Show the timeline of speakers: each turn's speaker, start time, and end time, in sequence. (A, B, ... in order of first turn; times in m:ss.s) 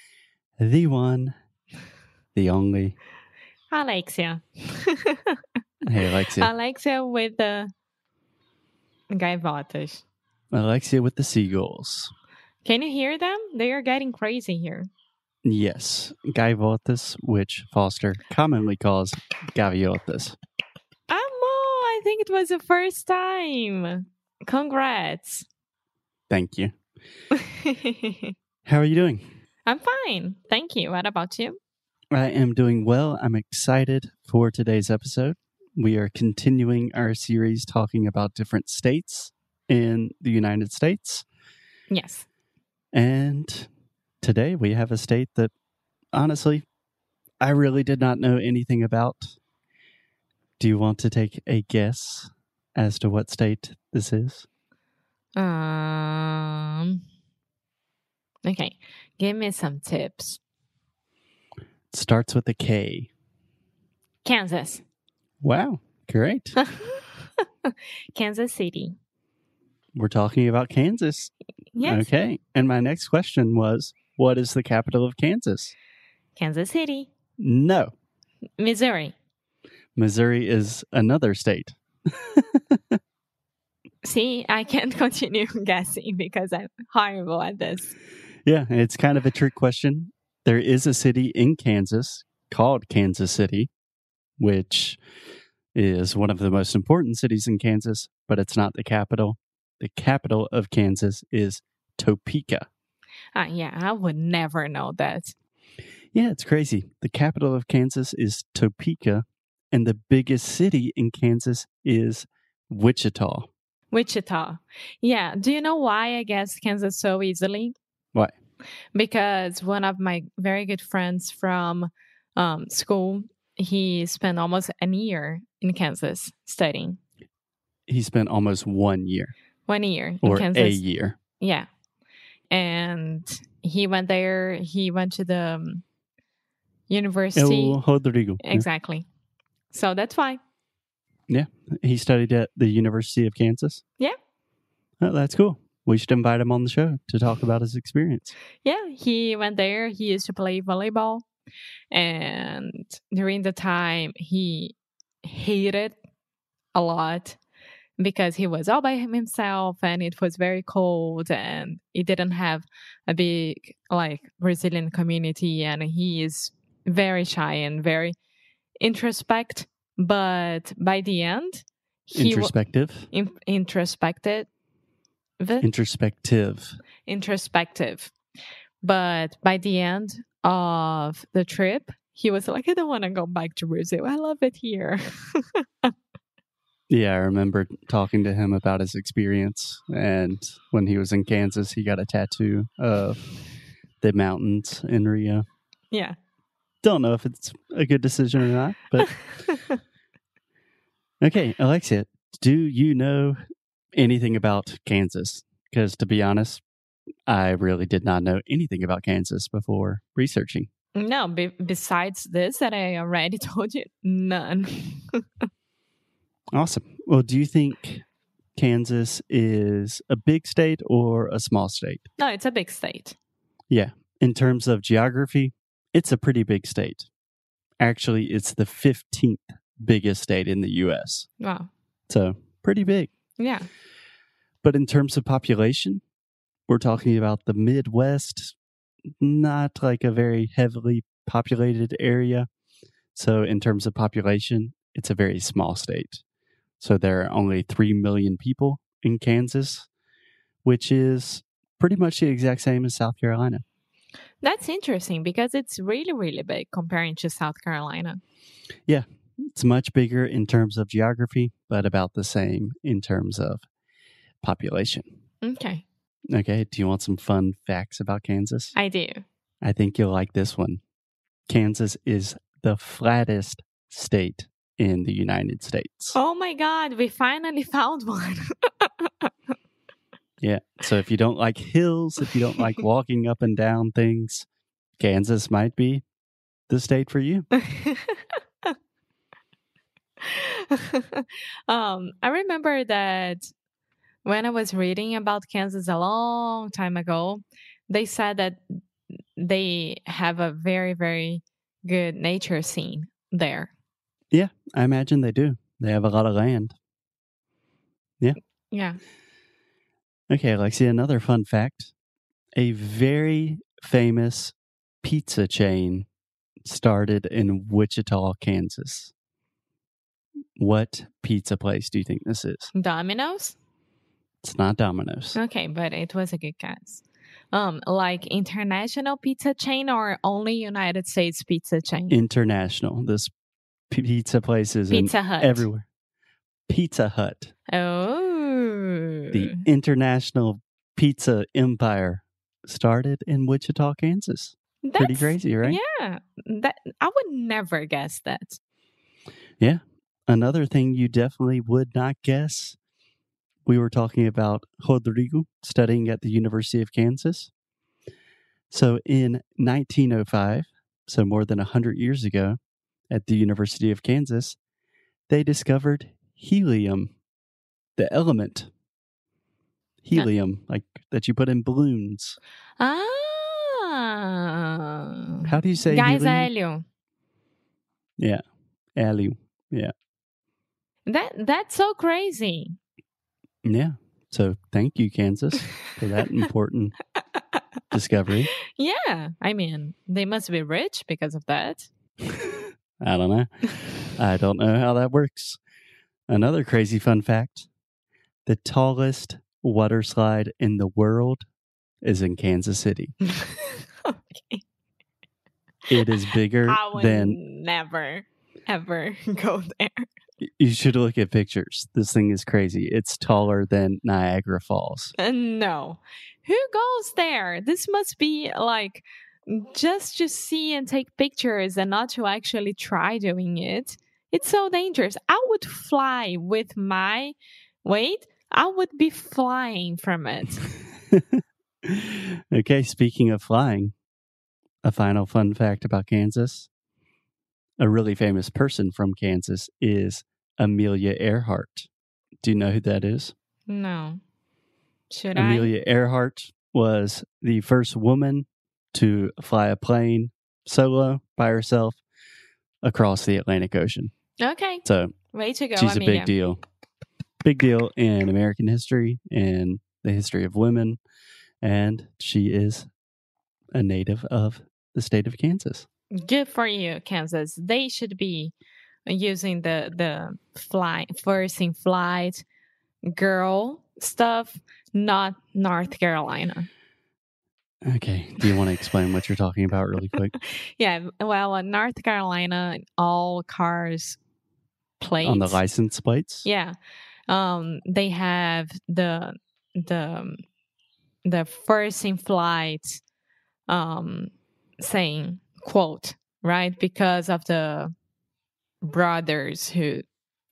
0:00.6-0:01.3 A
0:02.4-0:03.0 A
0:03.7-0:05.4 B
0:05.8-0:06.5 A
0:06.4-0:07.7 B
0:09.1-0:10.0 B
0:10.5-0:12.1 A
0:12.6-0:14.9 B
0:15.4-0:20.4 A
0:21.1-0:25.5 B
0:26.3-0:26.7 A
0:27.3-0:28.3 B
0:28.7-0:29.3 A
0:29.7-0:31.6 B
0:32.1-0:41.3 A
0:41.9-0:42.3 B
0:42.9-0:43.7 A
0:44.2-0:45.5 A
0:46.1-0:46.6 A
0:47.4-0:49.4 A
0:50.6-0:54.5 A
0:55.4-0:57.0 B
0:58.4-1:00.4 B
1:01.9-1:03.1 A
1:04.2-1:04.8 B
1:05.4-1:06.6 A
1:06.6-1:09.0 B
1:10.0-1:15.7 A
1:11.8-1:12.1 B
1:16.4-1:17.1 B
1:17.4-1:17.9 A
1:18.6-1:19.1 B
1:20.0-1:23.0 A
1:24.0-1:28.0 B
1:28.5-1:33.7 A
1:34.4-1:35.0 A
1:35.8-1:42.7 A
1:43.4-1:45.3 B
1:46.1-1:53.5 A
1:53.9-1:57.8 B
1:59.0-2:07.0 B
2:07.9-2:09.3 A
2:09.7-2:10.8 B
2:10.2-2:11.2 A
2:11.4-2:11.7 B
2:12.5-2:15.8 B
2:16.9-2:17.8 B
2:17.4-2:18.7 A
2:18.4-2:19.1 B
2:19.7-2:20.4 B
2:21.3-2:23.8 A
2:25.0-2:28.4 A
2:28.6-2:31.3 B
2:31.9-2:36.0 B
2:36.8-2:37.4 B
2:38.0-2:48.2 B
2:48.8-2:52.5 B
2:52.1-2:53.1 A
2:53.1-2:54.5 B
2:55.4-2:55.7 B
2:55.6-2:56.8 A
2:57.1-2:58.1 B
2:58.8-3:05.9 B
3:06.9-3:13.3 A
3:14.0-3:15.4 A
3:15.9-3:16.2 B
3:16.8-3:19.1 A
3:19.1-3:19.8 B
3:21.2-3:23.4 A
3:23.9-3:26.6 A
3:27.3-3:30.7 A
3:31.0-3:35.4 B
3:36.5-3:38.0 A
3:38.6-3:42.1 A
3:42.2-3:43.2 B
3:43.7-3:47.1 A
3:47.8-3:51.3 A
3:51.4-3:51.7 B
3:52.1-3:53.1 A
3:53.4-3:53.7 B
3:54.6-3:56.0 A
3:56.7-3:58.6 A
3:59.2-4:02.5 A
4:03.1-4:06.2 A
4:06.8-4:09.9 A
4:10.6-4:13.6 A
4:14.4-4:18.2 B
4:18.9-4:23.6 A
4:24.4-4:25.1 A
4:25.4-4:25.8 B
4:26.3-4:28.8 A
4:28.8-4:29.2 B
4:29.6-4:30.8 A
4:31.5-4:36.2 A
4:36.2-4:39.3 B
4:40.4-4:44.5 A
4:45.0-4:46.0 A
4:46.7-4:47.5 A
4:47.5-4:48.7 B
4:50.2-4:53.5 B
4:54.2-4:58.8 B
4:59.4-5:03.7 B
5:04.3-5:06.8 A
5:08.7-5:09.0 B
5:10.3-5:11.9 A
5:12.6-5:16.1 A
5:16.6-5:19.1 A
5:20.6-5:22.7 A
5:22.7-5:23.6 B
5:24.4-5:25.4 A
5:25.4-5:32.2 B
5:32.1-5:33.3 A
5:33.9-5:35.9 A
5:34.9-5:35.7 B
5:36.7-5:37.5 A
5:37.7-5:39.5 B
5:39.3-5:45.8 A
5:44.8-5:48.6 B
5:49.6-5:52.8 A
5:53.7-5:57.5 A
5:58.7-6:02.6 A
6:03.1-6:04.6 A
6:05.3-6:07.1 A
6:08.0-6:08.7 A
6:10.0-6:12.4 A
6:12.8-6:16.8 B
6:15.4-6:16.5 A
6:19.0-6:19.9 A
6:21.1-6:22.8 B
6:23.6-6:27.0 A
6:27.9-6:28.5 A
6:28.7-6:31.9 B
6:33.0-6:35.6 A
6:36.3-6:37.7 A
6:38.5-6:41.5 A
6:42.0-6:43.2 A
6:43.2-6:44.6 B
6:45.9-6:47.4 A
6:46.6-6:50.1 B
6:50.4-6:55.2 A
6:55.2-7:10.7 B
7:11.1-7:13.9 A
7:14.8-7:16.7 A
7:17.8-7:21.9 A
7:22.4-7:23.3 A
7:23.7-7:24.2 B
7:25.1-7:25.7 B
7:25.4-7:32.0 A
7:32.8-7:34.1 A
7:34.4-7:36.3 B
7:34.8-7:35.2 A
7:35.8-7:36.6 A
7:37.4-7:41.0 A
7:41.6-7:42.9 A
7:43.7-7:45.9 A
7:46.1-7:48.5 B
7:49.1-7:52.4 B
7:53.1-7:56.7 B
7:57.9-8:00.4 A
8:00.4-8:04.2 B
8:05.0-8:05.6 B
8:05.2-8:06.5 A
8:06.4-8:06.8 B
8:07.3-8:10.4 B
8:11.2-8:13.0 B
8:13.7-8:17.9 B
8:18.8-8:20.0 B